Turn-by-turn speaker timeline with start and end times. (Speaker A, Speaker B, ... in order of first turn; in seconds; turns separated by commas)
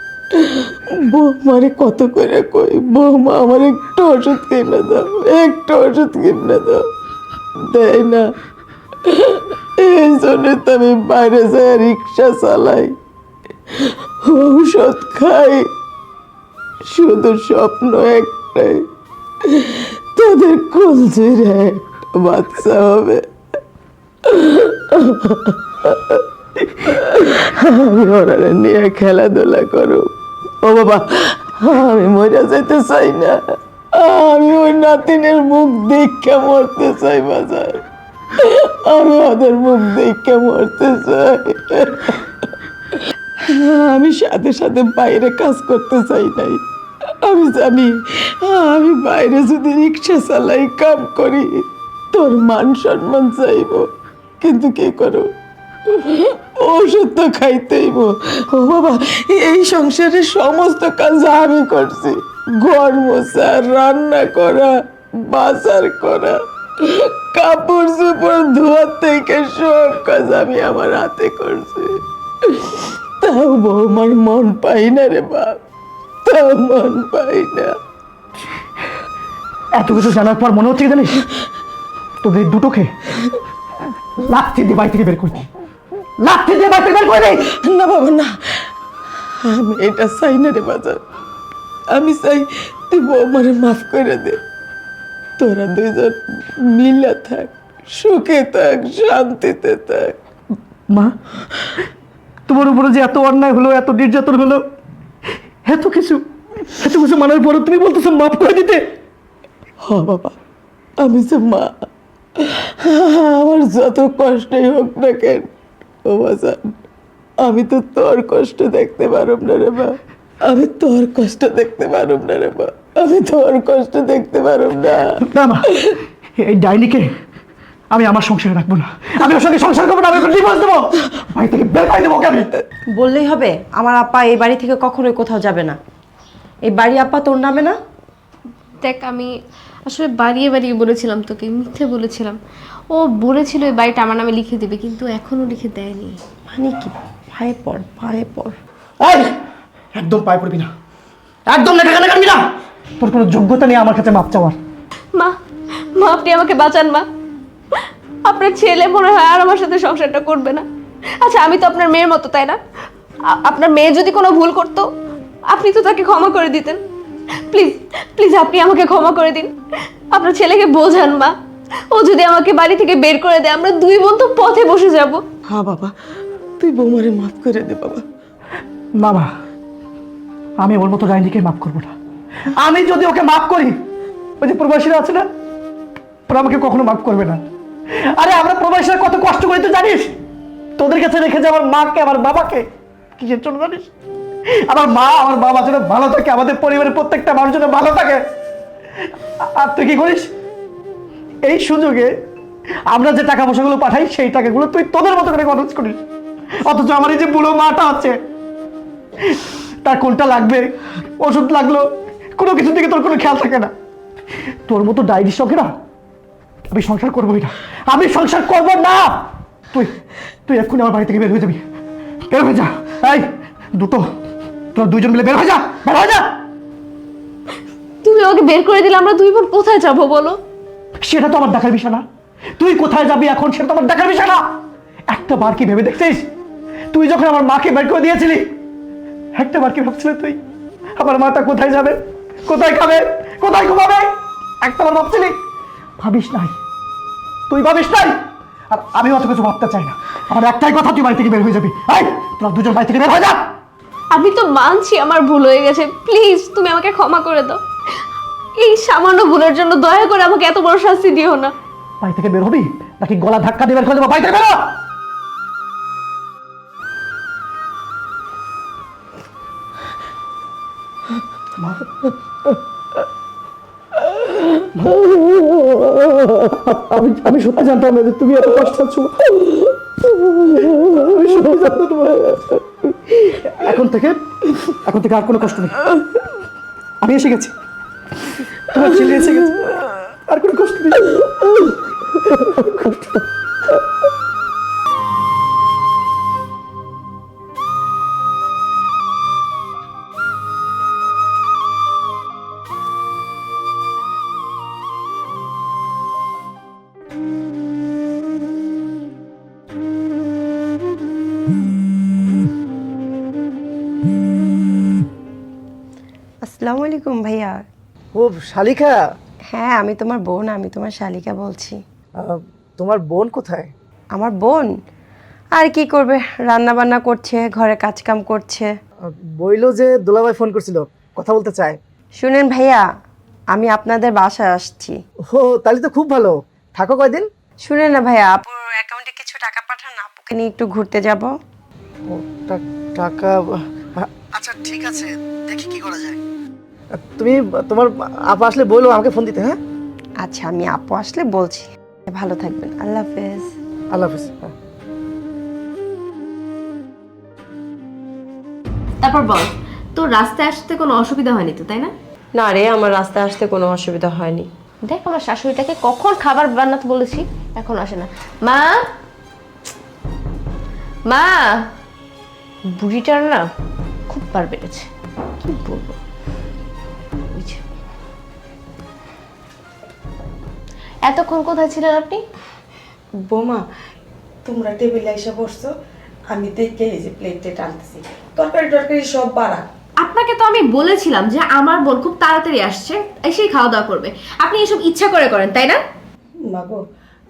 Speaker A: 0.3-6.8, Speaker A: 7.6-8.2, Speaker A: 9.0-12.9, Speaker A: 13.7-15.7, Speaker A: 16.9-18.8, Speaker A: 19.4-23.2, Speaker A: 24.2-30.1, Speaker A: 30.6-37.8, Speaker A: 38.4-42.3, Speaker A: 43.0-46.6, Speaker A: 47.2-53.9, Speaker A: 54.4-55.3, Speaker A: 55.9-75.6, Speaker A: 76.2-77.7, Speaker B: 79.7-81.2, Speaker B: 82.2-82.9, Speaker B: 84.2-85.5, Speaker B: 86.2-87.5, Speaker A: 87.5-88.7, Speaker A: 89.4-91.0, Speaker A: 91.9-94.4, Speaker A: 95.4-100.2, Speaker B: 100.9-101.2, Speaker B: 102.5-104.6, Speaker B: 105.6-108.9, Speaker A: 109.8-110.3, Speaker A: 111.0-115.5, Speaker A: 116.0-116.7, Speaker A: 117.4-125.2, Speaker B: 125.2-125.7, Speaker A: 125.7-126.0, Speaker B: 126.4-127.1, Speaker B: 127.9-132.5, Speaker C: 132.9-135.8, Speaker C: 136.7-137.8, Speaker D: 138.8-139.3, Speaker D: 139.9-142.4, Speaker D: 142.9-146.2, Speaker C: 146.5-148.5, Speaker B: 149.0-149.4, Speaker B: 149.9-150.7, Speaker B: 151.5-152.4, Speaker B: 153.0-154.6, Speaker D: 155.9-157.1, Speaker D: 157.8-160.6, Speaker D: 161.2-162.6, Speaker D: 163.2-164.9, Speaker D: 165.5-166.8, Speaker D: 167.5-169.5, Speaker D: 170.1-171.3, Speaker D: 171.9-175.2, Speaker A: 175.5-175.9, Speaker A: 176.6-178.0, Speaker B: 179.0-179.3, Speaker B: 180.6-181.9, Speaker B: 182.4-183.8, Speaker B: 184.4-185.2, Speaker B: 186.3-190.2, Speaker B: 190.8-193.9, Speaker B: 194.6-198.2, Speaker B: 199.0-200.3, Speaker B: 201.4-202.1, Speaker B: 202.9-206.0, Speaker B: 206.6-208.2, Speaker B: 209.2-210.7, Speaker B: 211.2-213.7, Speaker B: 214.7-215.7, Speaker B: 216.7-219.9, Speaker B: 220.5-221.6, Speaker B: 222.3-224.1, Speaker B: 224.7-226.4, Speaker D: 228.0-230.4, Speaker B: 231.0-232.0, Speaker B: 232.6-234.4, Speaker B: 235.1-236.3, Speaker B: 236.9-238.5, Speaker B: 239.3-240.4, Speaker B: 241.0-245.3, Speaker B: 246.0-246.5, Speaker B: 247.5-248.2, Speaker B: 248.7-253.5, Speaker D: 254.1-257.6, Speaker D: 258.6-261.5, Speaker B: 262.0-264.8, Speaker B: 271.6-272.0, Speaker B: 274.7-275.4, Speaker B: 276.4-279.3, Speaker A: 280.5-281.0, Speaker B: 280.6-282.3, Speaker B: 283.1-285.8, Speaker B: 287.0-287.5, Speaker B: 288.7-289.6, Speaker B: 290.3-291.1, Speaker B: 292.4-293.1, Speaker C: 316.4-317.6, Speaker B: 318.1-319.0, Speaker C: 319.5-321.8, Speaker B: 322.2-323.7, Speaker C: 324.1-324.7, Speaker C: 325.6-328.7, Speaker B: 329.1-331.8, Speaker C: 332.2-332.8, Speaker C: 333.5-335.0, Speaker B: 335.3-337.3, Speaker C: 337.6-341.3, Speaker B: 342.1-346.2, Speaker B: 346.9-349.6, Speaker C: 350.2-353.5, Speaker B: 353.9-354.5, Speaker D: 359.0-361.9, Speaker C: 362.3-364.5, Speaker D: 364.9-368.8, Speaker D: 371.1-371.6, Speaker D: 372.7-373.4, Speaker D: 374.1-374.9, Speaker D: 375.4-375.9, Speaker D: 377.3-377.6, Speaker D: 381.1-382.2, Speaker E: 383.2-383.6, Speaker E: 384.4-385.7, Speaker E: 386.3-389.7, Speaker D: 390.0-395.8, Speaker E: 396.5-396.8